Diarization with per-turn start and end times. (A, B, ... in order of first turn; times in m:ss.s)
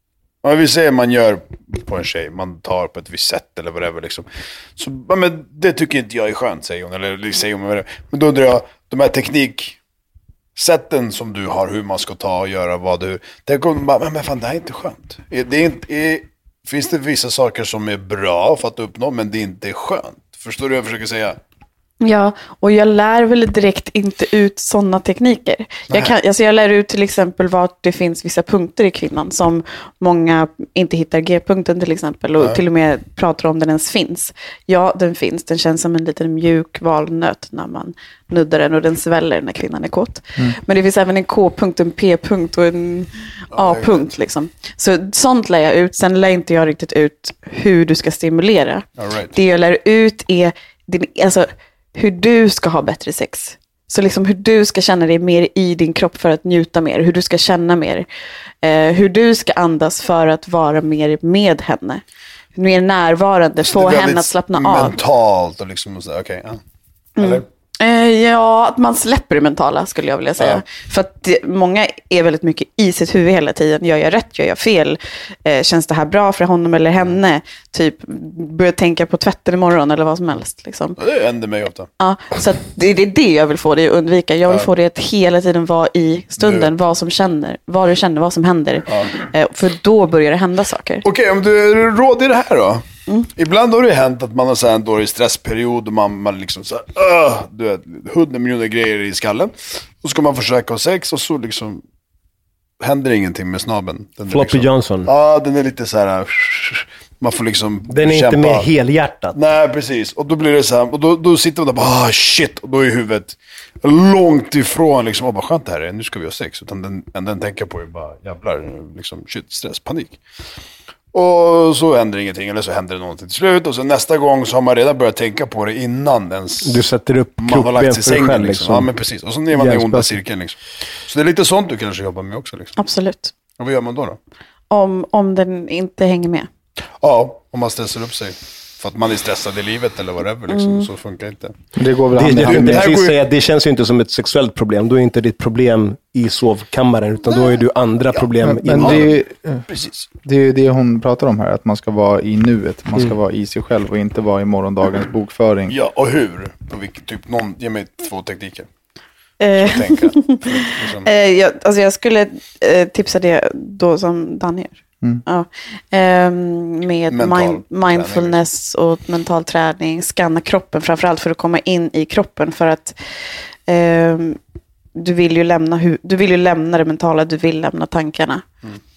0:00.4-0:09.8 A
0:10.6-0:21.4 A
0:22.0-0:58.0 B
0:43.5-0:44.1 A
0:49.0-0:49.4 A
0:58.6-1:02.0 B
1:02.6-1:05.0 B
1:03.6-1:06.6 A
1:07.2-1:21.0 B
1:07.2-1:07.4 A
1:10.4-1:10.6 A
1:21.0-1:21.9 A
1:22.0-1:31.0 B
1:26.4-1:26.7 A
1:31.0-1:32.8 A
1:33.3-1:41.8 A
1:42.8-1:48.7 A
1:44.3-1:45.1 C
1:47.9-1:49.4 C
1:49.3-2:00.2 A
2:01.1-2:06.8 A
2:06.6-2:08.9 C
2:07.4-2:12.7 A
2:09.5-2:10.2 C
2:12.8-2:13.3 B
2:13.5-2:14.2 A
2:14.7-2:16.5 B
2:17.0-2:21.5 A
2:20.5-2:20.9 B
2:21.8-2:23.0 D
2:22.2-2:29.1 C
2:22.4-2:23.2 A
2:28.4-2:35.8 D
2:28.7-2:29.2 A
2:29.7-2:30.0 A
2:35.7-2:38.7 A
2:39.4-2:53.0 B
2:39.5-2:41.1 A
2:47.1-2:48.4 A
2:53.7-2:54.4 B
2:54.9-2:58.4 B